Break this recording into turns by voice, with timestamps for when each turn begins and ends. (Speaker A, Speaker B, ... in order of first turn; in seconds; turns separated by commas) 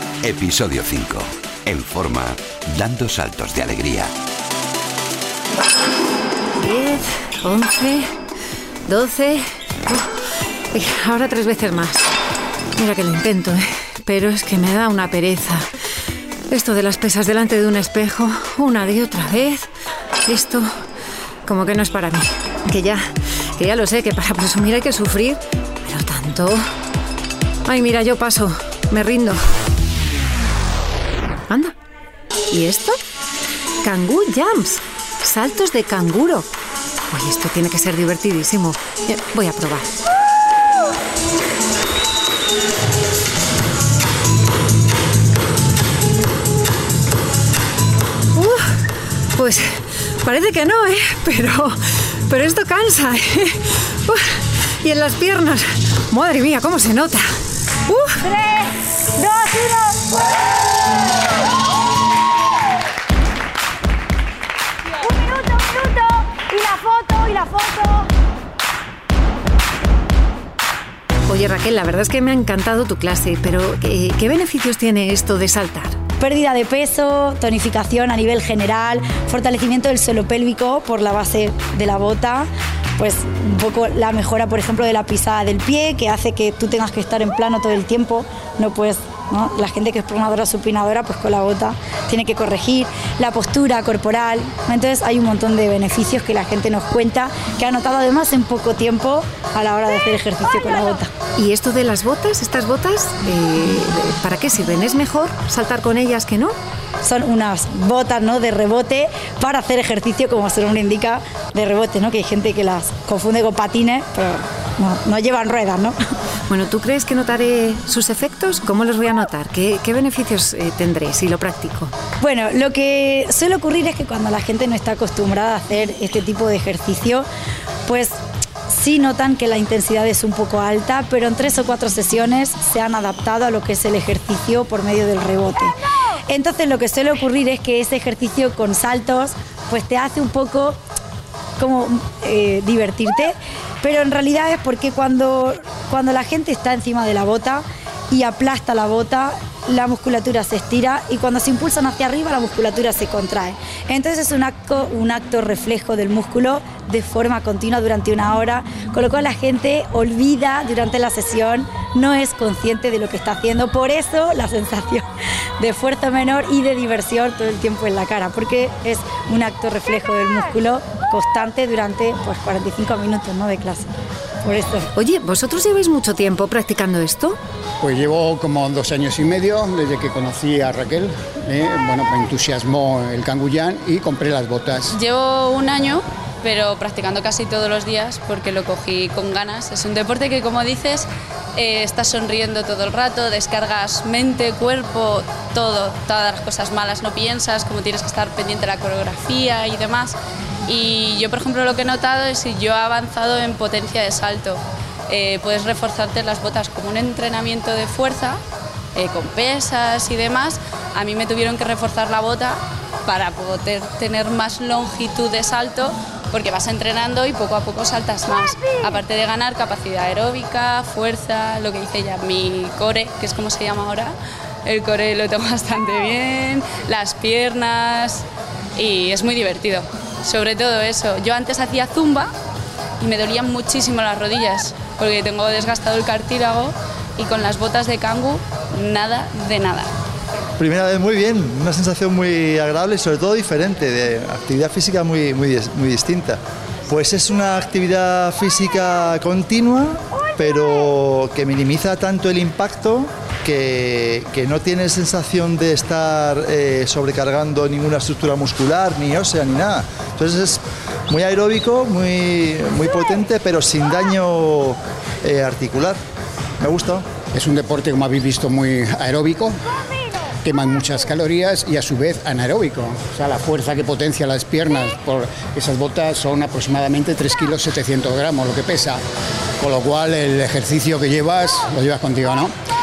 Speaker A: 0.2-4.1, Speaker B: 6.6-8.1, Speaker B: 8.9-10.1, Speaker B: 10.7-12.1, Speaker B: 12.8-15.7, Speaker B: 16.5-19.7, Speaker B: 20.2-20.7, Speaker B: 21.4-23.0, Speaker B: 23.6-26.6, Speaker B: 27.6-29.4, Speaker B: 31.5-31.7, Speaker B: 32.5-33.0, Speaker B: 33.8-36.5, Speaker B: 37.1-39.9, Speaker B: 48.3-48.8, Speaker B: 49.3-49.7, Speaker B: 50.2-54.2, Speaker B: 54.8-57.3, Speaker B: 57.9-58.2, Speaker C: 58.2-60.2, Speaker C: 65.0-68.1, Speaker B: 71.3-76.0, Speaker C: 76.2-101.1, Speaker B: 101.3-106.5, Speaker C: 107.0-115.9, Speaker B: 116.5-121.9, Speaker C: 122.2-127.2, Speaker C: 127.8-128.2, Speaker C: 128.7-135.8, Speaker C: 136.3-140.8, Speaker C: 141.6-165.1, Speaker C: 165.6-173.9, Speaker C: 174.4-174.9, Speaker B: 174.9-177.4, Speaker D: 177.8-184.9, Speaker E: 184.9-208.4, Speaker E: 208.9-224.1, Speaker E: 224.7-228.2, Speaker E: 228.8-232.3, Speaker E: 233.0-239.9, Speaker F: 240.6-266.0, Speaker F: 266.6-267.0, Speaker D: 267.3-269.6, Speaker D: 270.4-279.0, Speaker D: 279.6-282.5